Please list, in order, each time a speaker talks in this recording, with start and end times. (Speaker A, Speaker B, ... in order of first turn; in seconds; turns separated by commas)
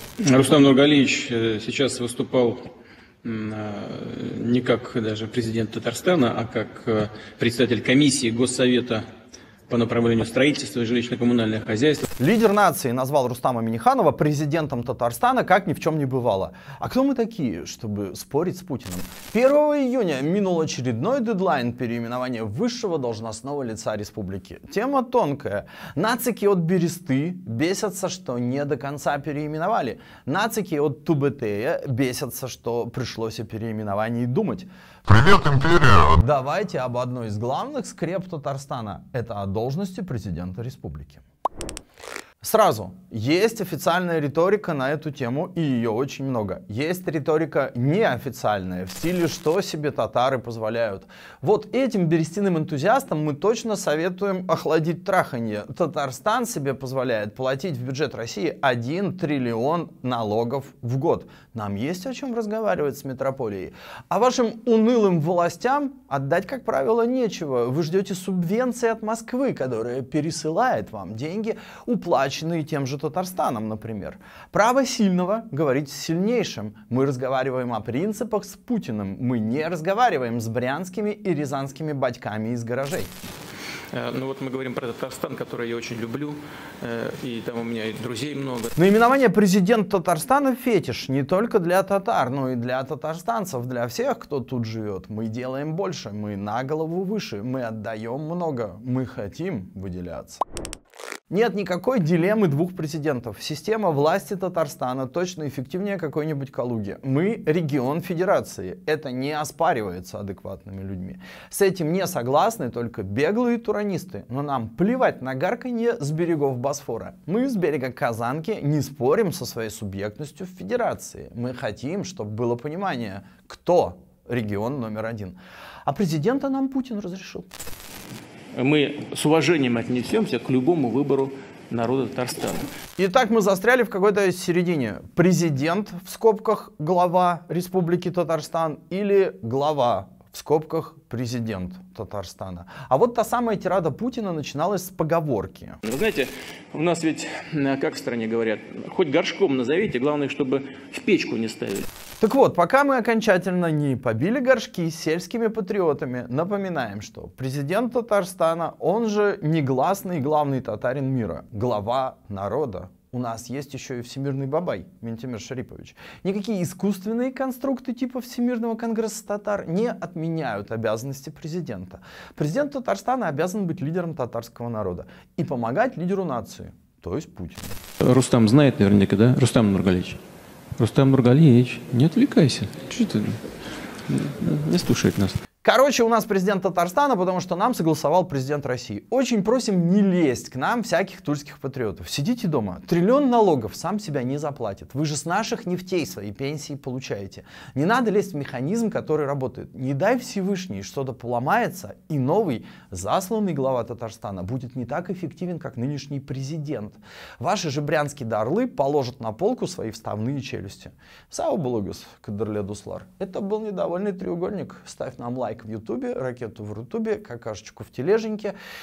Speaker A: 0.2-2.6, Speaker A: 3.2-9.0, Speaker A: 9.7-12.1, Speaker B: 12.2-41.2, Speaker B: 42.4-83.1, Speaker A: 83.9-88.7, Speaker B: 88.8-100.4, Speaker B: 101.3-127.5, Speaker A: 128.6-132.7, Speaker B: 133.0-145.8, Speaker A: 145.8-151.9, Speaker B: 152.2-177.8, Speaker A: 178.0-180.2, Speaker A: 180.8-183.4, Speaker A: 184.1-185.4, Speaker B: 185.6-218.5